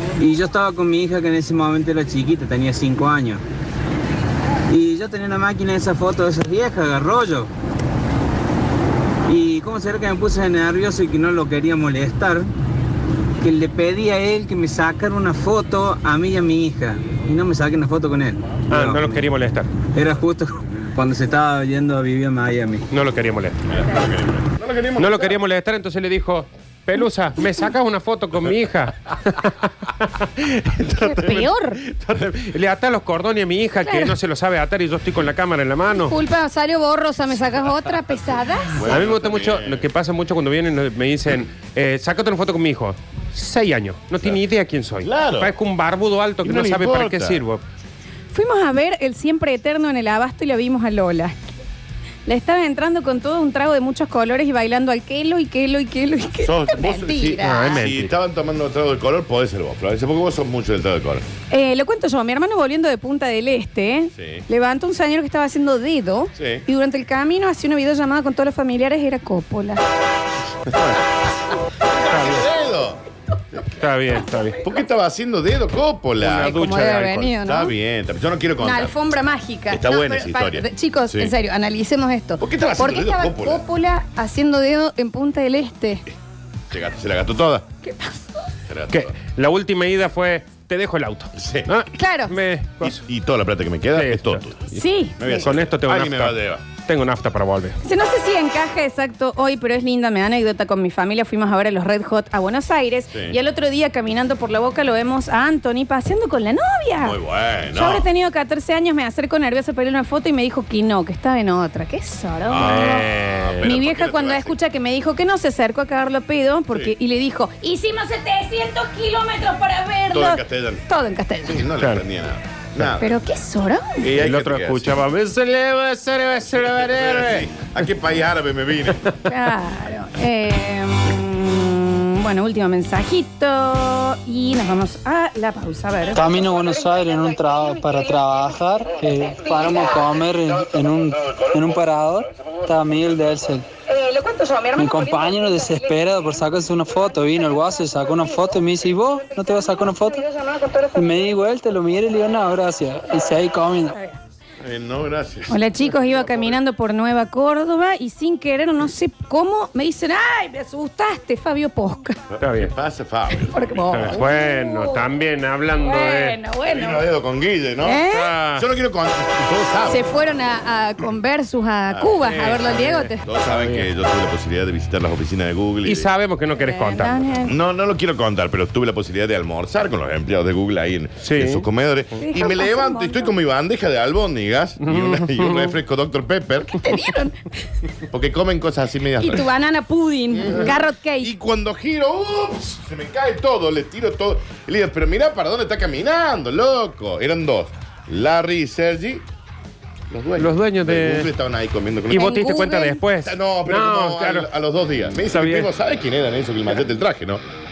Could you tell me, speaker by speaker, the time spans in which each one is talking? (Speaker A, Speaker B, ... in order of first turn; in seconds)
Speaker A: 0.2-3.4, 4.7-7.5, 9.3-12.5, 13.4-19.2, 19.9-22.9
Speaker B: 18.7-19.7, 22.9-23.6, 25.0-36.1, 38.9-47.6, 57.4-58.1, 72.1-72.5, 73.8-74.6, 76.2-77.3, 88.9-93.0, 93.9-97.8, 112.6-113.7, 124.2-127.5, 162.4-162.7, 163.9-166.4, 168.1-168.7, 172.2-173.9, 175.8-177.3, 181.2-181.7, 184.8-185.8, 200.4-201.3, 202.1-204.5, 205.2-205.7
Speaker C: 23.7-25.4, 38.8-39.8, 45.0-45.5, 46.4-47.4, 56.4-61.2, 64.2-64.4, 66.4-66.6, 70.7-71.0, 71.9-73.0, 74.6-78.9, 79.7-81.3, 82.4-83.6, 86.7-87.7, 88.7-89.2, 91.4-91.7, 92.8-94.6, 95.2-96.6, 103.1-103.4, 107.0-108.0, 112.5-114.5, 120.1-120.8, 121.5-123.1, 124.0-125.0, 126.5-129.0, 154.6-156.6, 162.3-164.2, 166.6-170.0, 171.9-172.4, 173.2-176.1, 177.4-186.9, 188.1-189.5, 190.3-199.2, 200.1-202.3, 203.2-207.4
Speaker D: 30.9-31.8, 33.8-34.1, 36.0-38.9, 48.3-51.4, 52.2-57.8, 61.5-69.8, 76.2-77.7, 78.6-86.0, 87.8-88.4, 91.9-92.3, 94.7-95.4, 97.8-107.2, 107.7-113.1, 113.6-121.7, 123.0-124.0, 129.3-136.3, 155.5-162.2, 163.4-165.1, 165.8-167.1, 167.8-168.3, 169.9-173.2, 176.6-177.5, 182.2-183.3, 186.7-187.5, 189.2-191.3, 202.1-203.0
Speaker E: 136.1-143.7, 144.7-150.3, 150.9-153.9